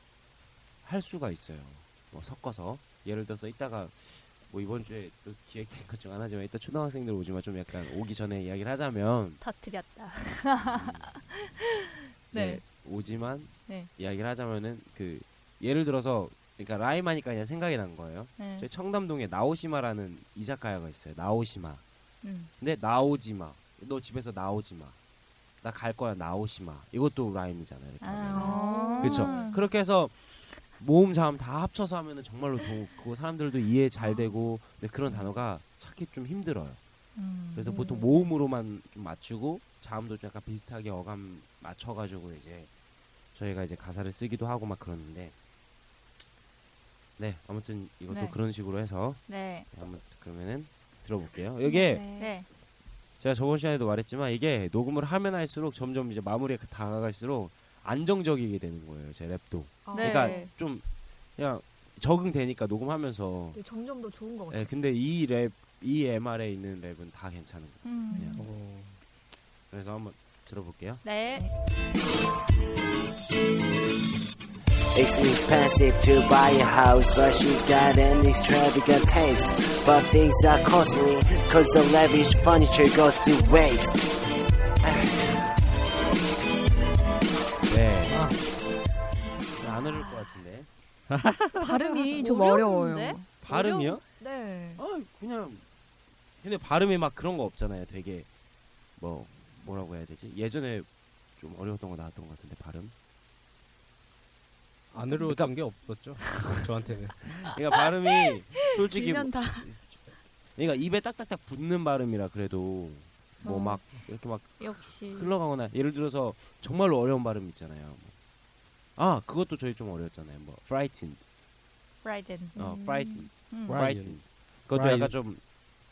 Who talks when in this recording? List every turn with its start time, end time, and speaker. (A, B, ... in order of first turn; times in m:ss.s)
0:00.8-0:09.4 A
0:09.4-0:12.6 B
0:10.6-0:11.1 A
0:12.3-0:21.8 A
0:18.4-0:18.7 B
0:22.2-0:22.5 B
0:22.6-0:25.0 A
0:25.6-0:36.8 A
0:28.0-0:29.6 B
0:28.3-0:29.5 C
0:37.2-0:38.3 B
0:37.5-0:42.7 A
0:43.3-0:45.3 A
0:47.2-0:52.0 A
0:48.1-0:48.4 B
0:49.3-0:49.7 B
0:51.6-0:52.4 C
0:52.2-0:52.4 B
0:53.2-1:03.6 A
0:59.8-1:00.5 C
0:59.9-1:00.5 B
1:03.5-1:04.7 C
1:04.5-1:08.4 A
1:07.8-1:08.4 B
1:08.1-1:08.4 C
1:08.4-1:09.0 D
1:09.7-1:11.0 A
1:11.0-1:11.5 B
1:14.9-1:24.1 E
1:25.0-1:25.3 A
1:27.7-1:28.3 A
1:28.1-1:28.4 D
1:29.6-1:30.7 A
1:31.1-1:31.5 D
1:31.5-1:33.3 C
1:31.8-1:34.0 B
1:33.4-1:34.0 A
1:34.2-1:34.8 C
1:34.8-1:35.6 A
1:36.4-1:38.3 A
1:39.0-1:42.9 A
1:44.9-1:47.3 D
1:45.2-1:45.5 A
1:47.4-1:50.0 A
1:48.6-1:49.8 C
1:50.6-1:58.1 A
1:53.4-1:53.8 B
1:54.6-1:55.3 B
1:59.0-2:01.2 A
2:02.0-2:02.6 B
2:02.5-2:03.3 C
2:02.6-2:05.4 A
2:03.5-2:03.8 B
2:03.7-2:04.2 D
2:04.7-2:05.1 D